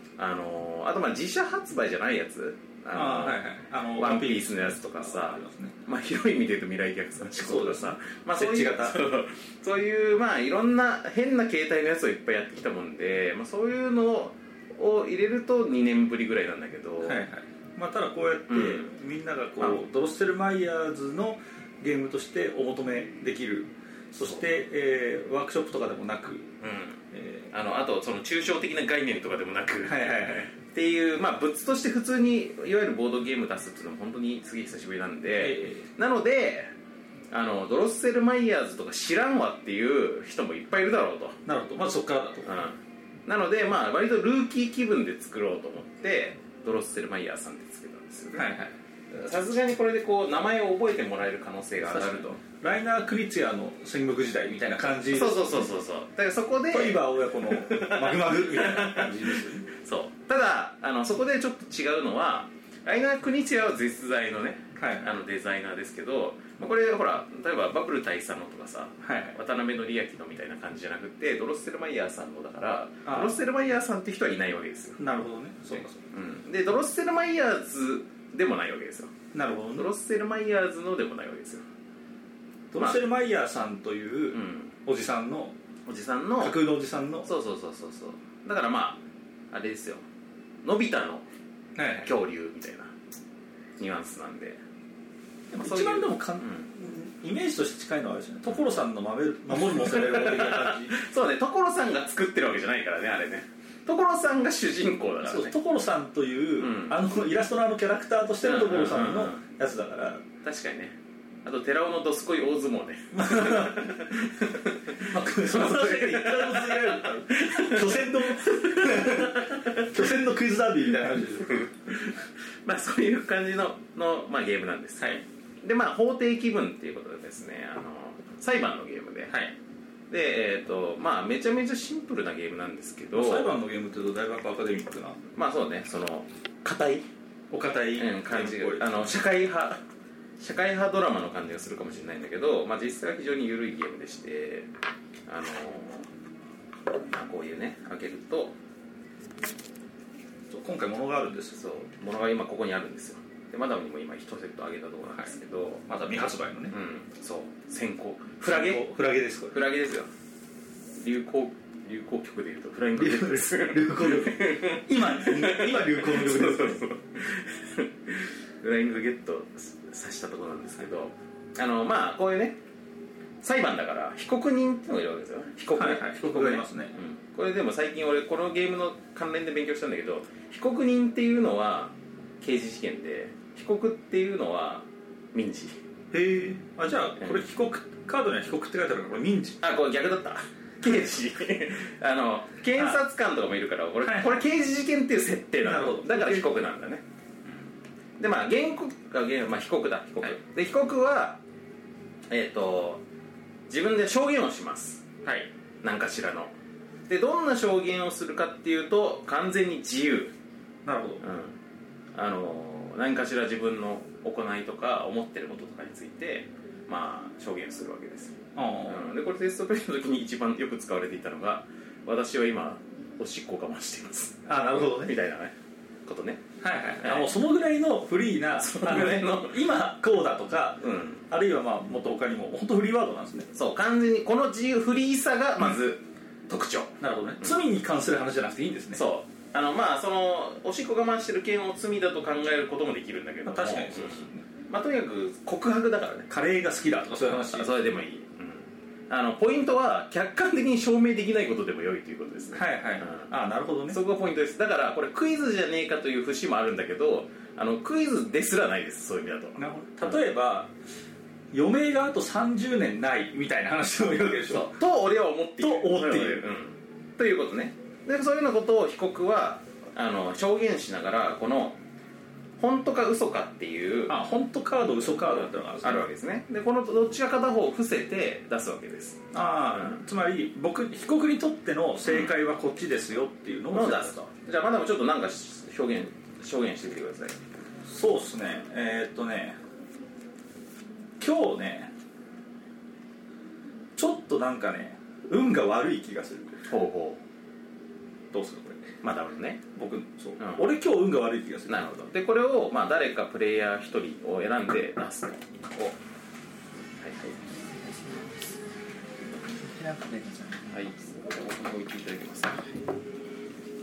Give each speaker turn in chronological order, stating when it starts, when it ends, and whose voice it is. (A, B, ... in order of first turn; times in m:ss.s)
0:00.2-0:03.4 A
0:02.9-0:05.8 B
0:04.0-0:17.2 A
0:07.3-0:09.0 B
0:17.0-0:26.5 B
0:18.5-0:18.9 A
0:26.6-0:36.7 A
0:27.1-0:27.5 B
0:29.8-0:30.5 B
0:35.4-0:35.9 B
0:37.3-0:41.4 A
0:41.4-0:42.5 B
0:42.4-0:48.5 A
0:48.3-0:48.7 B
0:49.1-0:52.4 A
0:51.8-0:55.7 B
0:55.1-1:15.0 A
0:56.7-0:59.6 B
1:04.8-1:05.1 B
1:09.0-1:09.4 B
1:13.0-1:13.4 B
1:15.0-1:16.0 B
1:16.1-1:19.1 A
1:19.3-1:19.9 B
1:19.7-1:21.6 A
1:22.7-1:25.5 B
1:24.3-1:24.7 A
1:25.9-1:26.6 A
1:26.4-1:27.3 B
1:27.2-1:30.0 A
1:30.6-1:31.2 A
1:31.8-1:32.1 B
1:32.0-1:32.9 A
1:33.8-1:34.6 A
1:35.5-1:41.0 B
1:35.6-1:36.7 A
1:39.6-1:45.5 A
1:45.2-1:50.2 B
1:46.6-1:47.0 A
1:48.4-1:49.4 A
1:50.4-2:00.0 A
1:53.1-1:53.9 B
1:55.0-2:01.7 B
2:01.5-2:09.4 A
2:09.3-2:09.5 B
2:10.1-2:13.5 A
2:13.1-2:15.2 B
2:15.3-2:17.0 A
2:17.5-2:19.2 B
2:18.0-2:19.8 A
2:20.4-2:24.7 A
2:25.3-2:26.1 A
2:27.1-2:28.5 A
2:30.5-2:31.5 B
2:31.5-2:35.9 A
2:35.9-2:36.7 B
2:36.7-2:38.9 A
2:38.5-2:39.6 B
2:39.5-2:40.1 A
2:41.0-2:52.6 A
2:43.0-2:46.8 B
2:53.4-3:05.8 A
2:55.8-2:57.0 B
3:06.1-3:09.6 B
3:09.6-3:17.0 A
3:12.7-3:13.0 B
3:14.0-3:14.4 B
3:15.6-3:16.6 B
3:18.2-3:21.4 A
3:22.3-3:23.0 A
3:23.7-3:25.1 A
3:25.2-3:25.5 B
3:25.8-3:26.5 A
3:27.1-3:30.3 A
3:30.8-3:31.2 B
3:31.2-3:31.6 A
3:32.1-3:45.5 A
3:38.5-3:39.1 B
3:44.4-3:45.2 B
3:46.1-3:46.4 A
3:46.6-3:53.5 B
3:47.0-3:47.3 A
3:48.6-3:49.6 A
3:50.8-3:51.2 A
3:53.5-3:57.6 A
3:57.0-3:59.0 B
3:58.9-4:06.3 A
4:03.4-4:04.4 B
4:06.3-4:07.7 B
4:07.3-4:13.3 A
4:12.5-4:14.0 B
4:13.9-4:20.2 A
4:19.6-4:20.7 B
4:21.5-4:24.8 B
4:24.5-4:31.8 A
4:25.6-4:26.4 B
4:32.6-4:34.2 A
4:34.1-4:36.0 B
4:35.0-4:40.0 A
4:39.3-4:44.1 B
4:42.0-4:42.3 A
4:43.7-4:47.4 A
4:47.8-4:49.6 B
4:51.2-4:51.9 B
4:54.0-4:56.7 B
4:56.7-4:57.2 A
4:58.3-4:58.9 B
4:59.0-4:59.6 A
4:59.7-5:01.9 B
5:00.4-5:00.6 A
5:01.7-5:06.0 A
5:07.0-5:07.3 A
5:07.7-5:08.4 B
5:09.5-5:10.7 B
5:10.7-5:12.6 A